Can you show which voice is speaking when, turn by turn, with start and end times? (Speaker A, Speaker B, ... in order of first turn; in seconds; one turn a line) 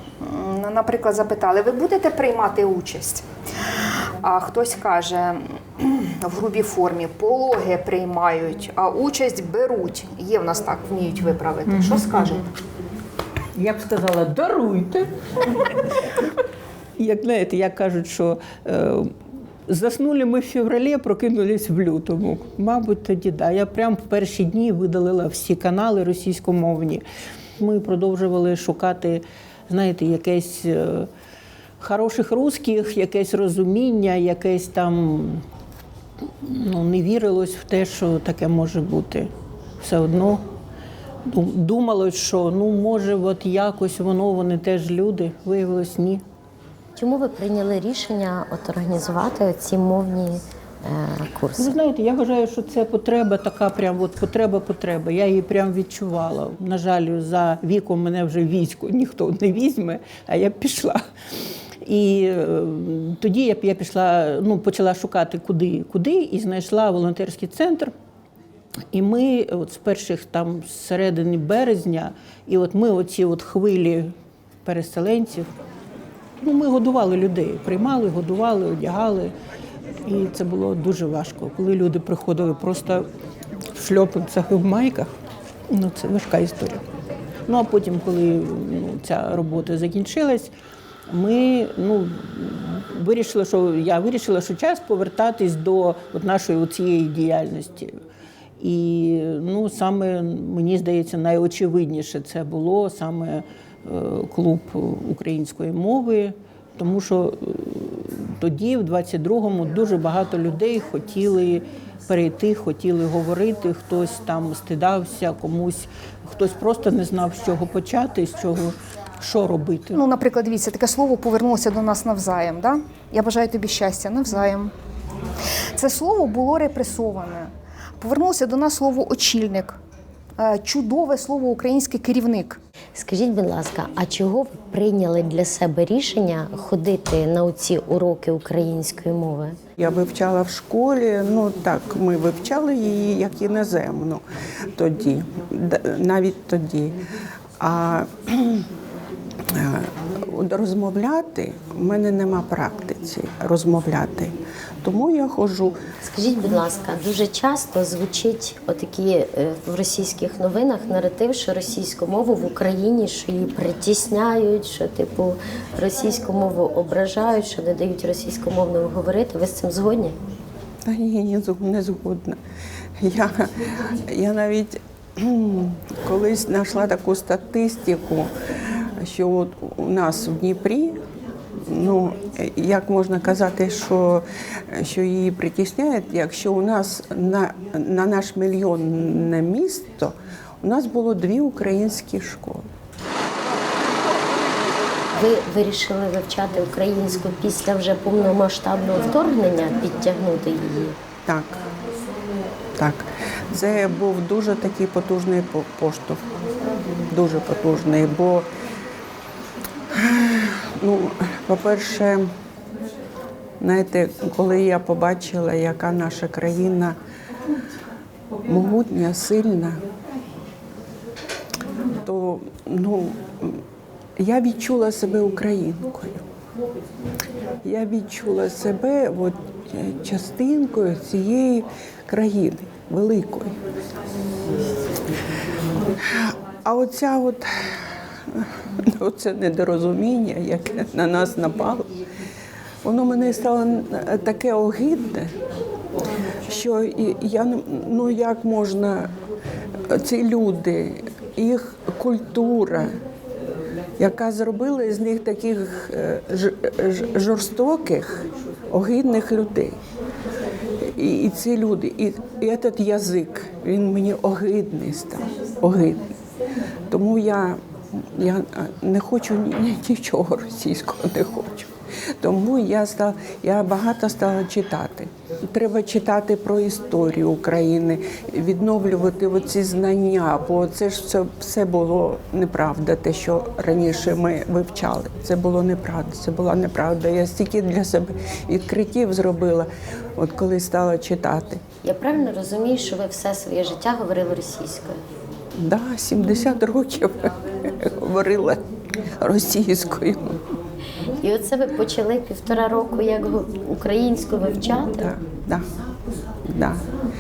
Speaker A: 0.2-3.2
Speaker A: 4.2-12.4
Speaker B: 11.7-12.4
Speaker B: 13.6-15.1
Speaker B: 17.0-19.1
Speaker B: 19.7-27.0
Speaker B: 27.6-31.1
Speaker B: 31.8-35.4
Speaker B: 36.5-40.4
Speaker B: 41.3-46.2
Speaker C: 47.0-51.8
Speaker B: 51.6-61.1
Speaker B: 61.8-67.9
Speaker B: 68.9-75.5
Speaker B: 76.4-79.3
Speaker B: 80.1-83.1
Speaker B: 83.8-85.1
Speaker B: 85.7-86.8
Speaker B: 87.5-90.5
Speaker B: 91.1-98.0
Speaker B: 98.6-120.0
Speaker A: 119.9-124.7
Speaker A: 125.8-129.8
Speaker A: 130.4-132.6
Speaker C: 132.9-139.6
Speaker D: 139.8-144.2
Speaker D: 144.8-147.0
Speaker D: 147.6-148.7
Speaker D: 149.5-155.8
Speaker C: 156.0-170.2
Speaker D: 170.8-172.4
Speaker D: 173.0-178.3
Speaker D: 179.0-181.0
Speaker D: 181.6-192.7
Speaker C: 195.1-201.0
Speaker D: 201.2-201.7
Speaker D: 202.8-206.2
Speaker D: 207.1-208.5
Speaker D: 209.9-212.3
Speaker D: 213.6-217.0
Speaker D: 218.5-219.8
Speaker D: 222.0-223.6
Speaker D: 224.2-226.3
Speaker D: 227.6-233.6
Speaker D: 236.0-237.7
Speaker D: 238.3-242.0
Speaker D: 242.8-245.3
Speaker D: 246.5-249.1
Speaker D: 249.9-253.0
Speaker D: 254.0-259.8
Speaker D: 260.8-266.1
Speaker D: 266.9-291.6
Speaker C: 291.8-295.0
Speaker D: 295.6-298.6
Speaker D: 299.2-300.4
Speaker C: 301.2-305.1
Speaker D: 304.9-305.7
Speaker D: 306.5-306.9